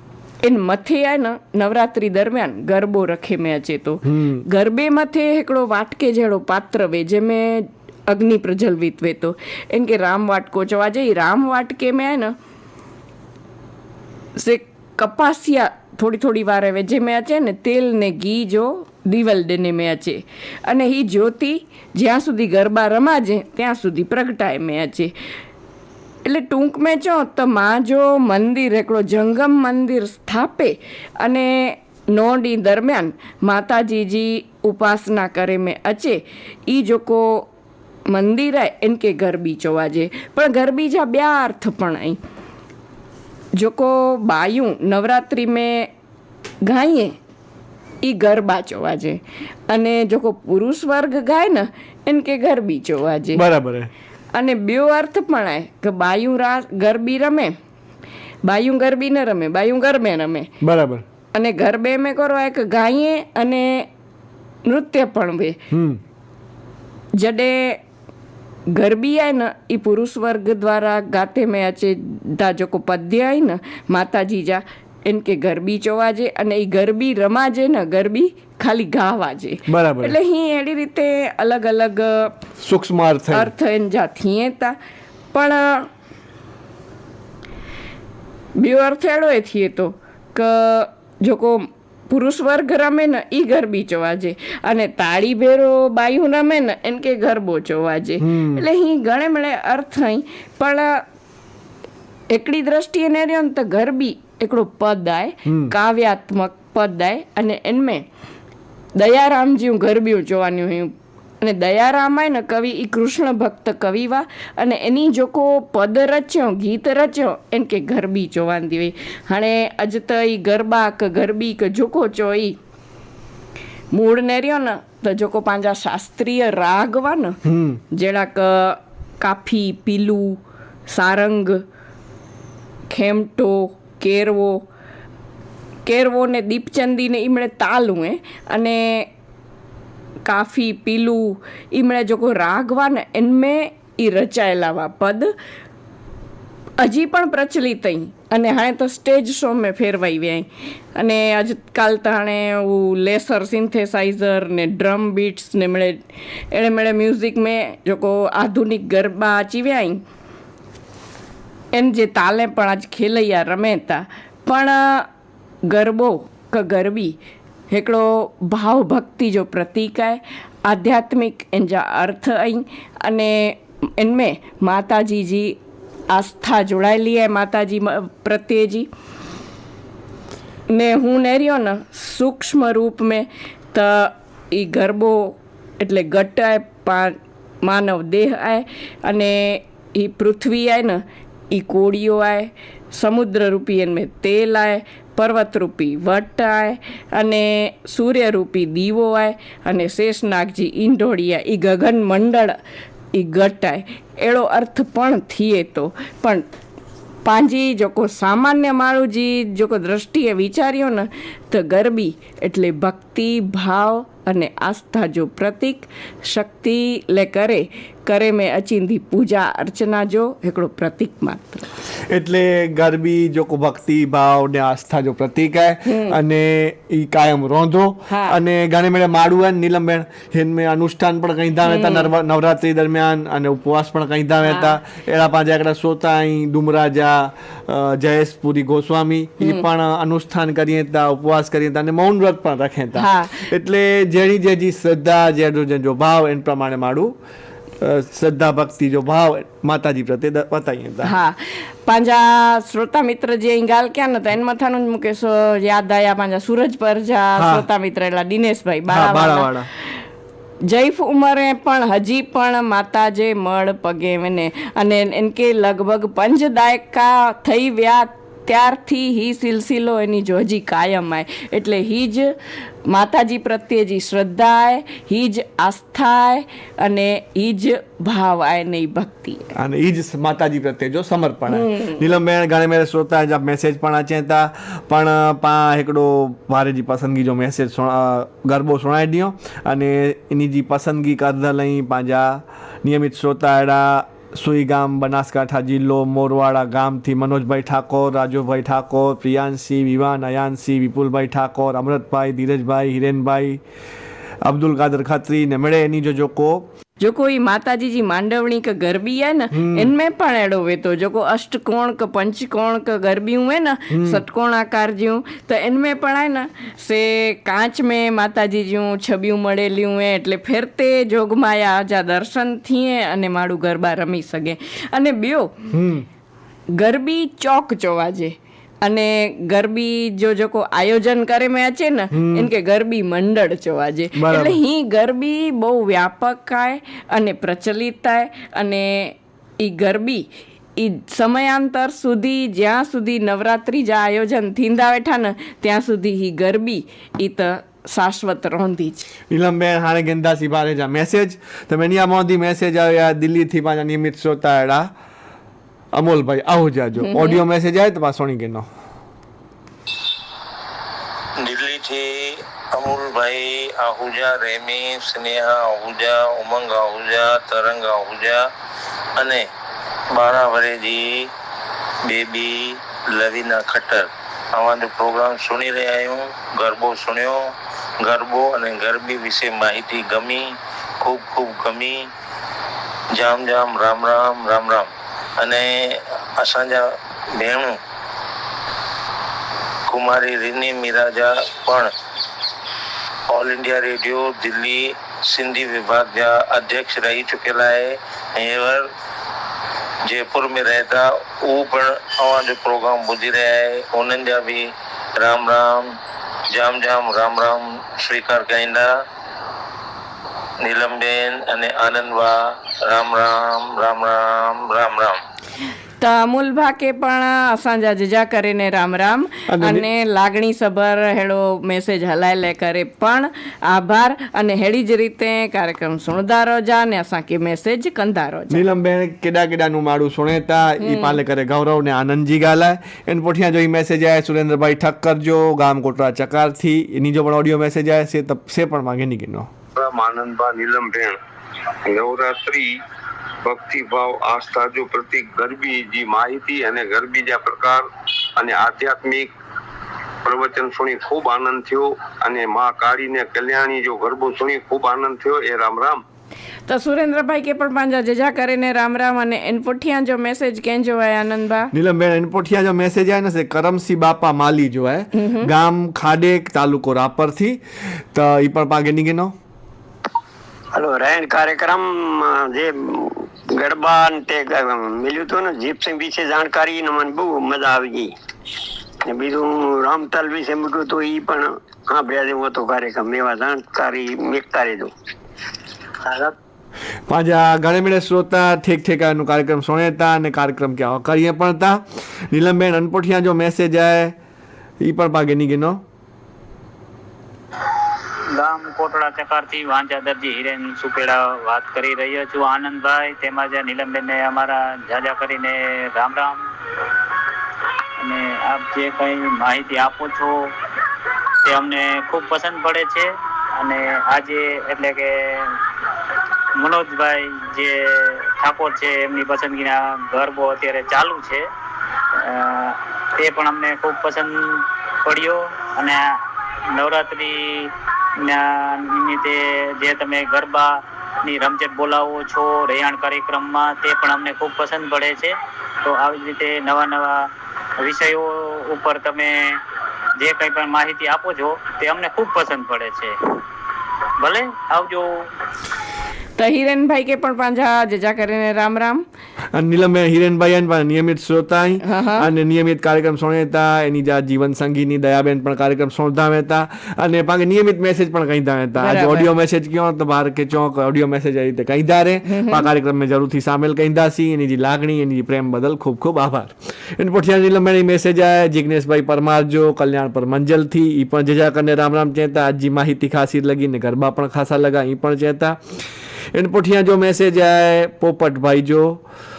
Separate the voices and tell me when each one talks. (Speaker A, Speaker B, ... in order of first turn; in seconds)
Speaker A: 0.4-12.3, 14.4-25.1, 26.2-37.5, 38.1-42.2, 43.6-45.9, 46.6-47.1, 48.0-53.4, 54.3-57.5, 58.5-60.5, 61.3-63.9, 64.7-65.6, 67.2-67.8, 68.7-82.3, 83.3-84.8, 85.3-85.9, 88.6-101.0, 102.3-108.1, 109.0-122.6, 123.9-127.4, 127.9-131.6, 132.9-134.7, 135.9-139.1, 140.2-145.3, 146.8-160.0, 161.7-165.1, 165.7-167.2, 167.7-175.6, 176.1-178.9, 180.7-191.0, 191.5-202.6, 203.1-206.5, 207.2-221.7, 225.9-226.2, 228.1-228.4, 231.7-232.1, 234.5-234.7, 239.4-239.7, 243.0-243.4, 251.0-259.5, 260.7-272.4, 272.9-279.5, 281.5-282.0, 307.0-325.6, 326.8-349.1, 357.0-357.4, 416.0-428.6, 430.8-431.2, 456.7-461.7, 465.2-465.5, 546.4-549.0, 551.8-552.3, 558.8-559.3, 562.3-562.7
Speaker B: 4.0-4.4, 53.4-53.9, 60.6-61.0, 65.7-66.0, 79.7-80.2, 82.6-83.5, 98.2-98.7, 105.5-105.7, 127.5-127.8, 222.1-247.2, 247.8-251.1, 257.4-257.7, 258.9-259.7, 279.6-303.6, 304.4-306.7, 309.5-309.9, 313.9-314.2, 325.7-326.1, 332.1-332.5, 334.1-334.6, 349.3-354.9, 355.9-358.7, 419.5-419.9, 428.5-439.5, 461.7-467.6, 468.1-469.3, 487.1-494.2, 494.8-495.8, 549.5-575.6, 576.3-579.0
Speaker C: 361.4-368.5, 369.2-369.4, 370.1-371.3, 372.1-382.1, 383.1-387.8, 389.9-391.9, 393.3-398.9, 400.1-405.9, 406.5-408.9, 410.6-415.2
Speaker D: 439.8-441.2, 441.9-442.8, 443.4-449.3, 450.2-456.0
Speaker E: 470.7-478.1, 479.1-484.9, 486.1-486.4
Speaker F: 498.4-506.4, 508.0-510.4, 511.4-515.6, 516.6-521.4, 522.1-526.0, 526.7-537.3, 537.8-539.6, 540.2-543.1, 544.2-545.2